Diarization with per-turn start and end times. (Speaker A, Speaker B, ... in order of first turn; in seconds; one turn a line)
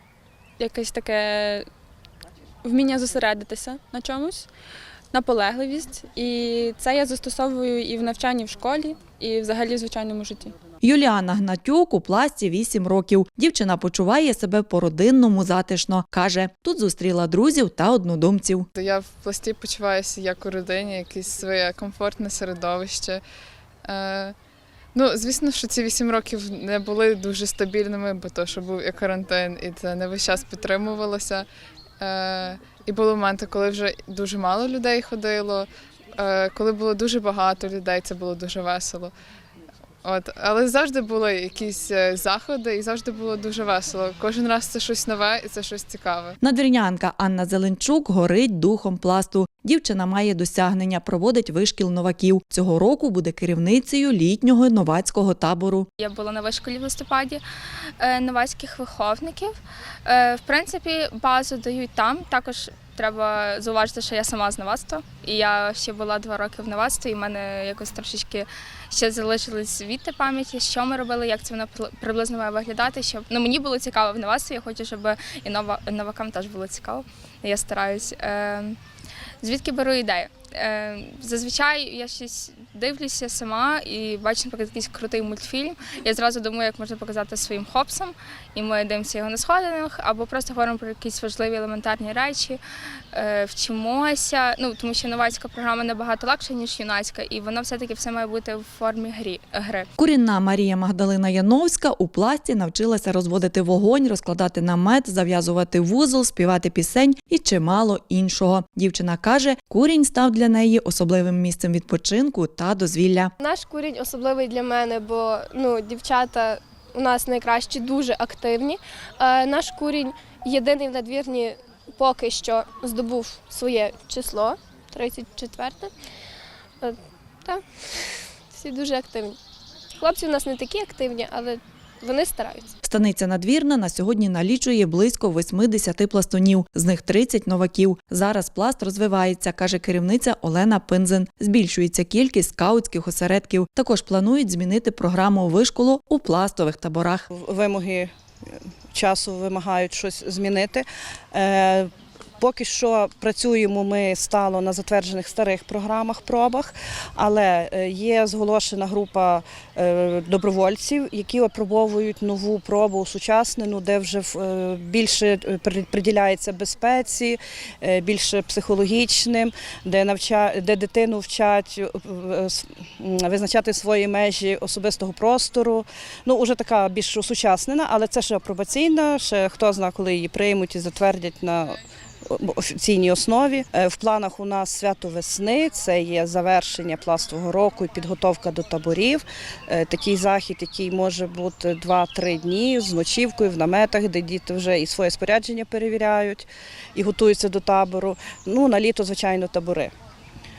Speaker A: 0.6-1.7
Speaker A: 2.6-4.5
Speaker A: 5.1-10.5
Speaker B: 10.8-18.7
Speaker C: 18.8-23.2
Speaker C: 23.8-24.3
Speaker C: 24.9-31.4
Speaker C: 32.0-39.1
Speaker C: 40.0-46.4
Speaker B: 46.4-55.9
Speaker D: 56.0-57.4
Speaker D: 58.0-78.8
Speaker D: 79.4-92.6
Speaker D: 93.1-99.9
Speaker B: 100.0-113.3
Speaker E: 113.4-125.9
Speaker E: 126.8-129.4
Speaker E: 130.0-132.7
Speaker B: 132.8-147.2
Speaker F: 147.3-148.1
Speaker F: 148.9-199.9